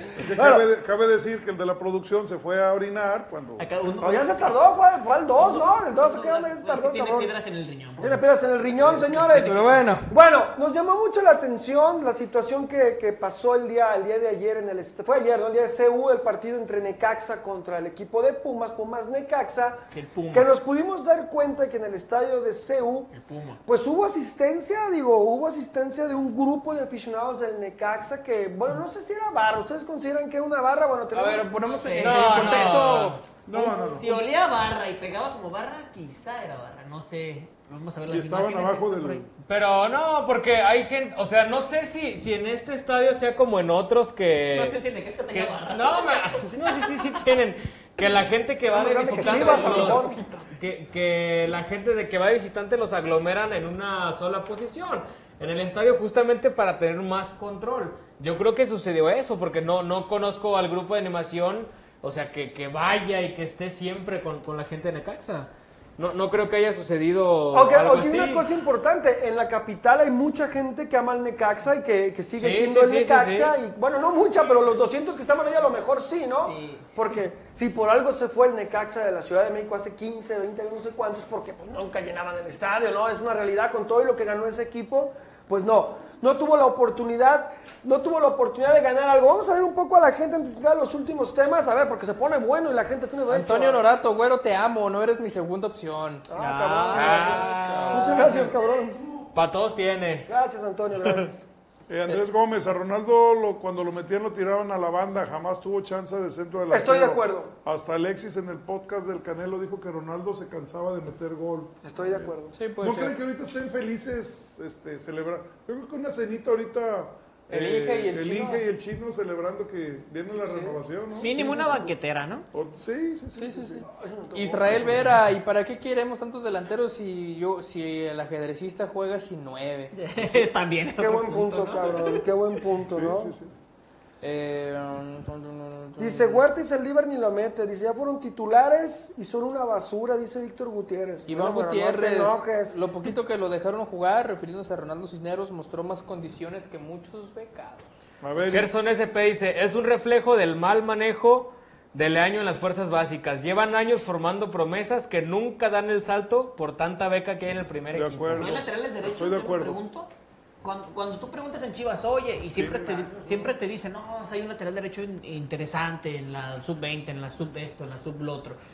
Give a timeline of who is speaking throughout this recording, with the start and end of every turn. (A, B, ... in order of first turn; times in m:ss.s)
0:00.2-0:03.7 A
0:00.3-0:00.6 B
0:03.6-0:04.6 C
0:04.0-0:07.3 B
0:05.4-0:08.2 C
0:08.0-0:23.1 B
0:08.8-0:09.8 C
0:09.4-0:10.1 D
0:19.9-0:20.5 C
0:23.2-0:23.6 C
0:23.6-0:31.6 B
0:31.1-0:34.0 D
0:31.8-0:33.0 C
0:32.0-0:33.2 E
0:33.5-0:34.1 A
0:33.6-0:39.2 C
0:38.1-0:39.3 A
0:39.4-0:44.8 E
0:44.5-0:46.5 C
0:45.3-0:50.0 E
0:48.6-0:50.4 B
0:49.2-0:50.0 C
0:49.4-0:50.0 D
0:50.6-1:08.4 E
1:07.5-1:33.9 B
1:12.3-1:13.6 E
1:16.4-1:16.9 C
1:33.3-1:36.3 D
1:36.3-1:39.0 B
1:36.4-1:37.2 C
1:36.9-1:38.5 E
1:37.1-1:38.5 A
1:39.3-1:40.3 E
1:40.3-1:41.5 B
1:41.9-2:01.3 A
1:46.7-1:47.5 B
1:51.8-1:52.6 B
1:52.5-1:53.1 D
1:57.5-1:58.6 D
2:00.4-2:01.9 D
2:01.1-2:02.5 C
2:02.5-2:03.8 A
2:03.4-2:10.0 D
2:03.8-2:05.3 B
2:09.9-2:12.3 C
2:11.0-2:13.3 B
2:12.8-2:13.6 A
2:14.2-2:16.4 D
2:16.0-2:22.8 B
2:21.2-2:27.9 D
2:28.2-2:28.7 A
2:28.4-2:38.6 E
2:37.9-2:39.8 A
2:38.4-2:40.1 C
2:40.6-2:48.6 C
2:42.5-2:43.6 A